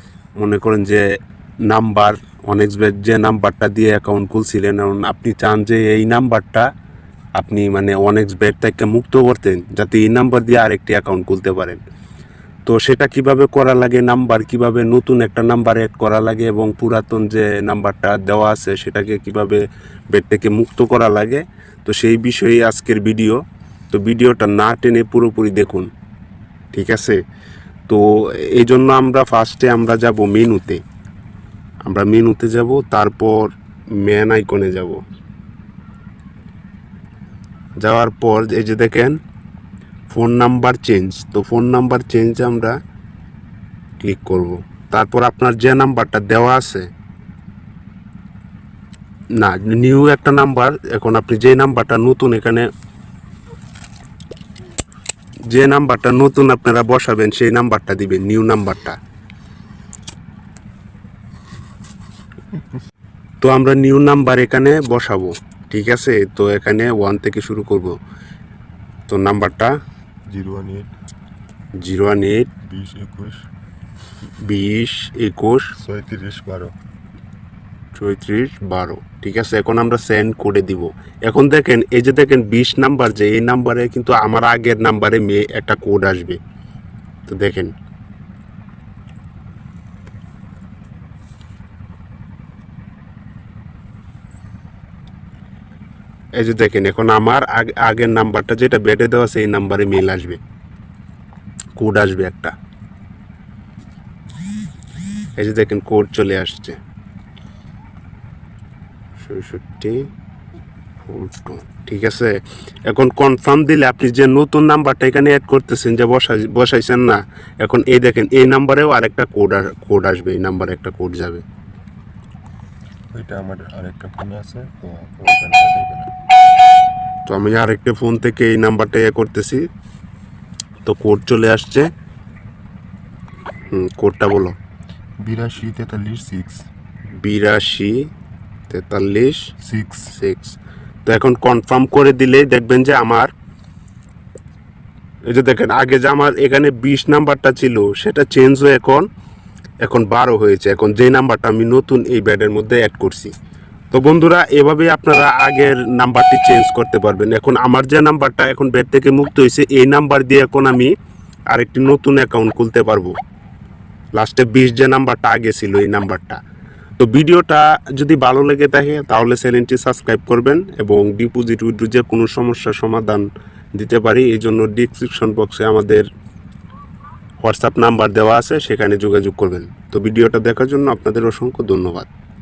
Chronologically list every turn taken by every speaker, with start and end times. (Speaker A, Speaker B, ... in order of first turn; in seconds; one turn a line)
Speaker A: 0.4-1.0
Speaker A: 1.7-6.7
Speaker A: 7.4-11.8
Speaker A: 12.7-25.9
Speaker A: 26.7-27.2
Speaker A: 27.9-30.8
Speaker A: 31.8-35.0
Speaker A: 37.8-39.2
Speaker A: 40.1-42.7
Speaker A: 44.0-46.9
Speaker A: 49.4-52.7
Speaker A: 55.5-59.0
Speaker A: 63.4-68.0
Speaker A: 69.1-69.7
Speaker B: 70.3-70.9
Speaker A: 71.8-72.5
Speaker B: 72.6-73.5
Speaker A: 74.4-75.7
Speaker B: 75.8-76.7
Speaker A: 77.9-86.4
Speaker A: 87.3-87.7
Speaker A: 96.3-100.4
Speaker A: 101.8-102.5
Speaker A: 105.4-106.8
Speaker A: 109.2-110.1
Speaker A: 111.0-121.4
Speaker B: 123.1-126.1
Speaker A: 127.3-129.7
Speaker A: 130.8-131.9
Speaker A: 133.7-134.6
Speaker B: 135.2-136.7
Speaker A: 137.2-138.1
Speaker A: 138.7-139.5
Speaker B: 139.6-140.1
Speaker A: 140.1-143.3
Speaker A: 145.3-149.1
Speaker A: 149.8-153.3
Speaker A: 153.9-160.9
Speaker A: 161.5-163.1
Speaker A: 164.1-166.4
Speaker A: 167.0-176.1
Speaker A: 177.4-182.1